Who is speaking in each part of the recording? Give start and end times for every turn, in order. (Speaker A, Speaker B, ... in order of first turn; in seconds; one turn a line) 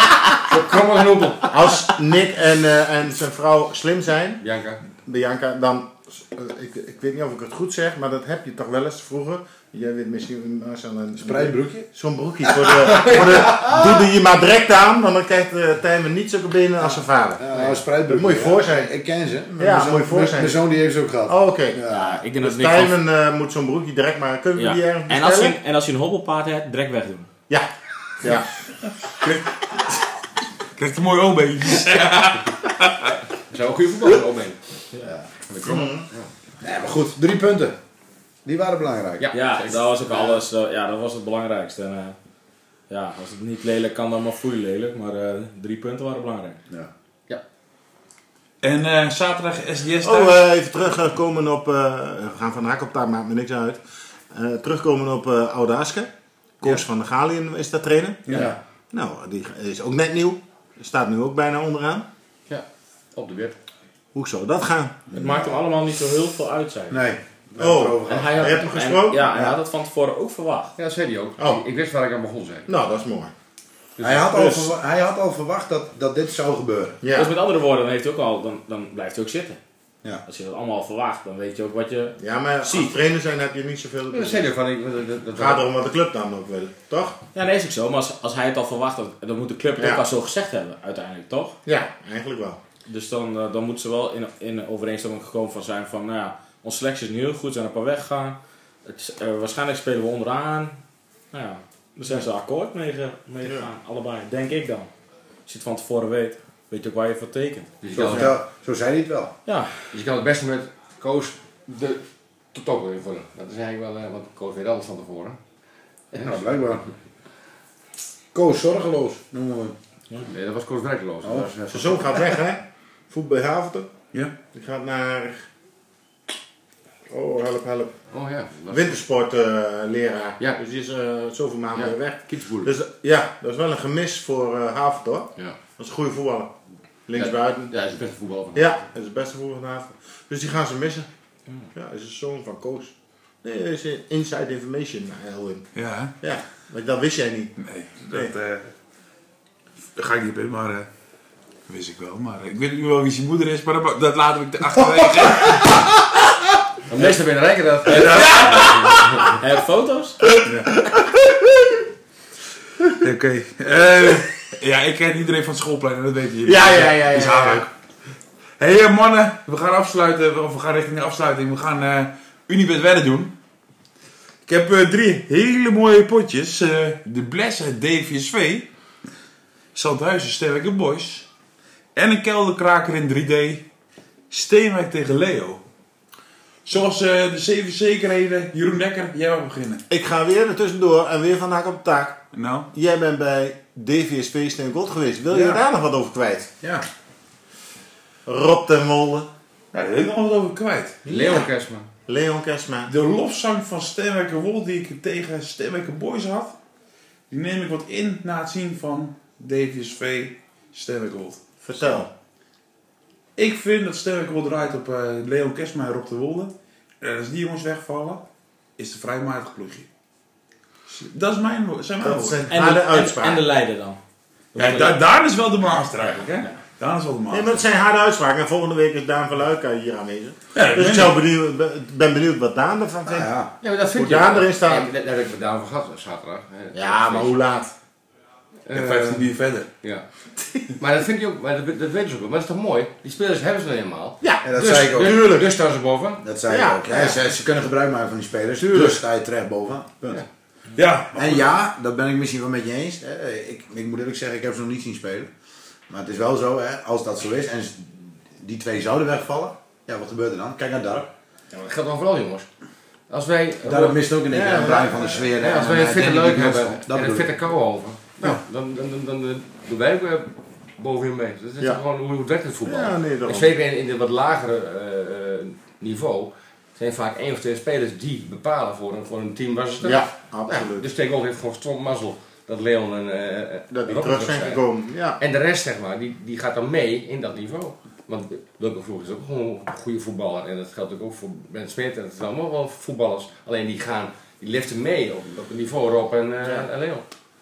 Speaker A: 0.4-1.5
Speaker B: 1.5-4.4
Speaker A: 4.4-4.8
Speaker B: 5.0-18.9
Speaker C: 11.2-11.9
Speaker C: 12.4-14.1
Speaker C: 17.4-22.2
Speaker B: 19.6-20.6
Speaker B: 21.2-21.8
Speaker D: 21.9-22.9
Speaker B: 22.4-25.6
Speaker D: 24.6-27.3
Speaker B: 28.2-28.5
Speaker E: 30.8-33.1
Speaker A: 33.5-34.6
Speaker A: 35.5-36.3
Speaker B: 35.6-36.0
Speaker C: 36.6-37.8
Speaker C: 38.4-39.3
Speaker A: 39.2-40.4
Speaker D: 39.3-42.1
Speaker D: 42.9-46.6
Speaker E: 48.6-50.4
Speaker B: 50.0-53.8
Speaker B: 54.3-56.1
Speaker B: 56.6-62.1
Speaker C: 58.3-58.6
Speaker A: 62.5-63.6
Speaker B: 64.1-65.0
Speaker C: 65.1-65.5
Speaker D: 65.1-67.0
Speaker C: 66.9-68.7
Speaker B: 67.6-69.3
Speaker D: 68.1-70.7
Speaker A: 70.8-72.7
Speaker B: 72.7-73.3
Speaker A: 74.0-74.3
Speaker C: 74.0-77.0
Speaker B: 77.0-77.3
Speaker D: 77.1-79.6
Speaker D: 80.2-82.9
Speaker B: 82.2-84.5
Speaker A: 84.1-85.6
Speaker B: 85.4-87.2
Speaker D: 87.3-91.6
Speaker B: 89.8-90.0
Speaker B: 91.7-92.6
Speaker D: 92.9-100.8
Speaker D: 101.3-104.9
Speaker D: 105.5-107.7
Speaker A: 107.8-108.4
Speaker C: 107.9-109.3
Speaker B: 108.1-108.3
Speaker D: 109.5-109.7
Speaker A: 109.9-115.4
Speaker C: 116.1-116.8
Speaker A: 116.1-116.9
Speaker C: 118.3-119.8
Speaker A: 120.3-122.3
Speaker C: 121.2-121.5
Speaker B: 121.7-123.9
Speaker B: 124.5-125.5
Speaker B: 127.1-127.9
Speaker A: 128.1-129.0
Speaker B: 128.7-136.5
Speaker A: 131.7-132.7
Speaker B: 137.1-137.7
Speaker A: 137.1-138.8
Speaker B: 138.5-141.1
Speaker B: 141.7-145.7
Speaker E: 145.7-146.1
Speaker B: 146.2-147.5
Speaker E: 147.6-148.7
Speaker E: 149.9-150.9
Speaker E: 151.7-156.1
Speaker A: 156.9-159.3
Speaker E: 157.9-159.3
Speaker D: 159.3-160.2
Speaker E: 160.4-161.0
Speaker E: 163.0-167.7
Speaker B: 166.4-167.6
Speaker E: 168.6-173.3
Speaker E: 174.4-178.7
Speaker E: 179.7-181.3
Speaker E: 181.9-183.7
Speaker E: 184.3-185.6
Speaker E: 186.6-189.8
Speaker B: 189.9-196.5
Speaker E: 192.3-192.7
Speaker C: 195.3-195.6
Speaker B: 198.2-199.3
Speaker E: 199.7-201.0
Speaker B: 201.0-201.5
Speaker A: 201.1-201.9
Speaker B: 202.1-202.9
Speaker E: 202.9-206.6
Speaker E: 207.3-212.0
Speaker B: 211.6-212.1
Speaker E: 213.3-218.2
Speaker E: 218.8-219.9
Speaker E: 220.9-222.4
Speaker B: 222.0-223.4
Speaker D: 222.5-224.0
Speaker D: 224.5-225.0
Speaker E: 224.5-227.6
Speaker B: 227.3-233.3
Speaker E: 230.5-231.2
Speaker C: 233.1-233.5
Speaker A: 233.6-237.3
Speaker B: 233.9-234.9
Speaker B: 236.7-237.7
Speaker A: 238.7-239.3
Speaker E: 238.7-239.7
Speaker A: 240.8-246.2
Speaker B: 244.2-245.5
Speaker C: 244.4-245.2
Speaker C: 246.2-250.2
Speaker B: 246.5-247.2
Speaker E: 250.8-251.5
Speaker C: 251.1-255.3
Speaker C: 255.9-261.1
Speaker A: 261.5-262.5
Speaker A: 263.1-264.1
Speaker C: 263.6-267.3
Speaker B: 264.3-265.0
Speaker A: 265.1-284.6
Speaker B: 272.6-273.5
Speaker B: 279.8-280.9
Speaker B: 283.7-285.2
Speaker A: 285.2-297.0